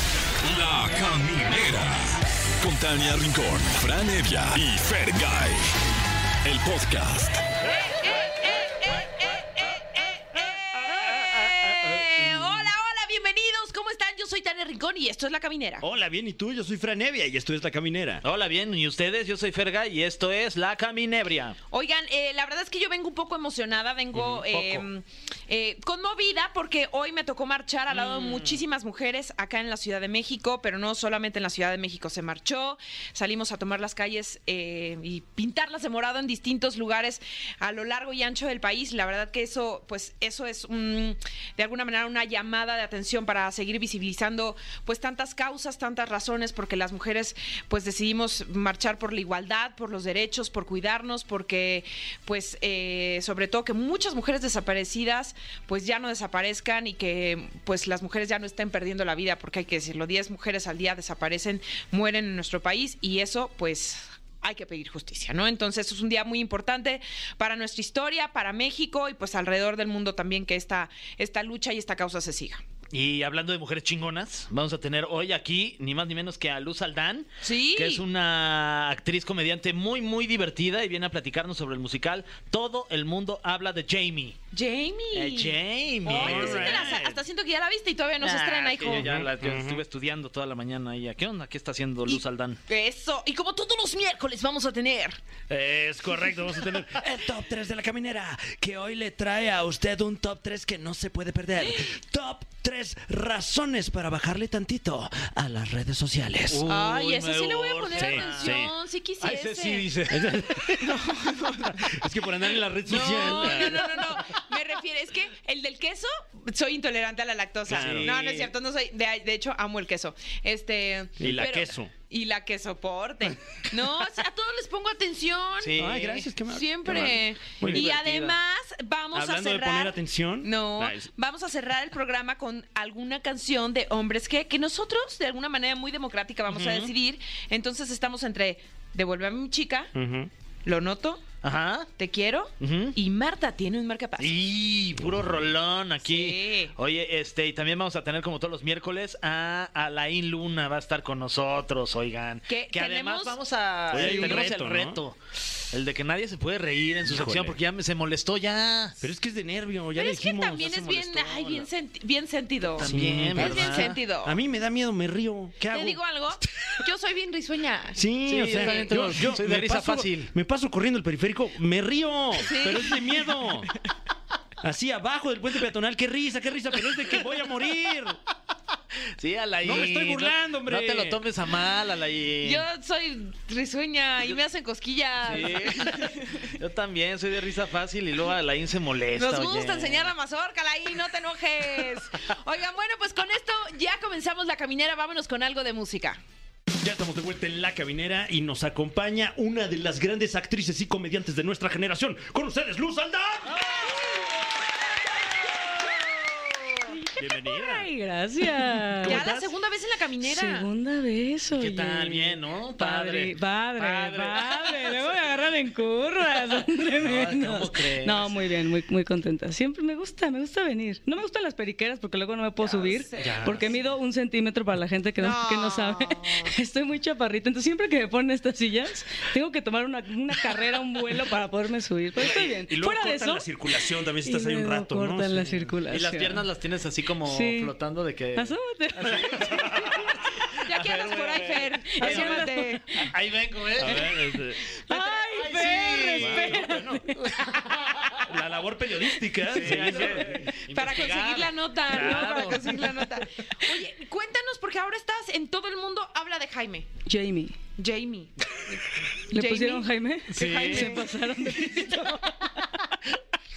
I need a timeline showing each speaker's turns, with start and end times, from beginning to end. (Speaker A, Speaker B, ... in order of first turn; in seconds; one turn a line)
Speaker A: 0.4-5.7
Speaker A: 6.4-7.4
Speaker B: 7.7-15.8
Speaker C: 15.8-18.2
Speaker D: 18.2-21.6
Speaker B: 21.7-72.6
Speaker D: 24.1-24.9
Speaker D: 27.9-28.6
Speaker D: 72.9-84.4
Speaker B: 77.4-78.0
Speaker B: 84.5-89.2
Speaker D: 85.1-86.9
Speaker C: 86.1-87.2
Speaker D: 88.2-92.6
Speaker C: 88.9-89.8
Speaker B: 92.1-95.2
Speaker C: 95.5-106.7
Speaker D: 106.5-108.6
Speaker B: 106.7-109.9
Speaker C: 107.9-108.7
Speaker D: 109.2-110.7
Speaker C: 110.1-111.1
Speaker B: 110.8-112.0
Speaker C: 111.6-114.2
Speaker B: 112.9-125.9
Speaker D: 112.9-113.9
Speaker C: 117.7-118.1
Speaker D: 117.7-118.5
Speaker C: 121.2-121.9
Speaker D: 125.6-126.3
Speaker C: 125.8-128.0
Speaker B: 126.5-139.9
Speaker D: 127.7-128.4
Speaker C: 129.1-131.1
Speaker C: 136.5-136.9
Speaker C: 139.9-140.3
Speaker B: 140.7-141.4
Speaker D: 141.4-141.9
Speaker B: 142.0-144.3
Speaker D: 142.6-143.0
Speaker D: 144.2-155.2
Speaker B: 146.0-146.7
Speaker B: 152.5-154.5
Speaker C: 153.9-155.0
Speaker D: 155.7-159.0
Speaker C: 157.1-157.6
Speaker C: 159.0-161.1
Speaker B: 160.0-164.4
Speaker D: 160.9-161.7
Speaker D: 162.8-164.0
Speaker C: 162.8-166.7
Speaker B: 165.7-169.2
Speaker C: 167.9-173.7
Speaker D: 168.3-170.3
Speaker B: 172.4-173.1
Speaker C: 174.6-178.2
Speaker D: 179.2-182.6
Speaker C: 179.6-181.2
Speaker B: 182.4-186.5
Speaker D: 185.3-190.1
Speaker B: 189.1-196.2
Speaker C: 196.8-203.8
Speaker B: 205.8-206.7
Speaker E: 206.9-209.2
Speaker C: 207.2-207.9
Speaker C: 209.0-209.5
Speaker B: 209.0-210.7
Speaker E: 210.2-233.5
Speaker D: 211.5-215.0
Speaker D: 217.0-218.3
Speaker B: 222.6-223.8
Speaker D: 223.2-223.8
Speaker B: 225.2-226.5
Speaker C: 232.2-235.7
Speaker E: 234.2-236.5
Speaker D: 235.9-244.2
Speaker E: 237.3-237.7
Speaker E: 238.3-239.6
Speaker C: 239.4-240.0
Speaker B: 240.6-242.9
Speaker E: 241.9-243.1
Speaker C: 243.8-244.6
Speaker E: 244.9-247.5
Speaker B: 244.9-246.5
Speaker D: 245.1-246.6
Speaker C: 246.2-247.1
Speaker D: 247.4-248.2
Speaker C: 248.2-250.5
Speaker D: 249.5-253.0
Speaker B: 249.7-256.9
Speaker E: 257.1-257.6
Speaker B: 257.8-262.5
Speaker E: 259.3-262.3
Speaker D: 260.3-261.0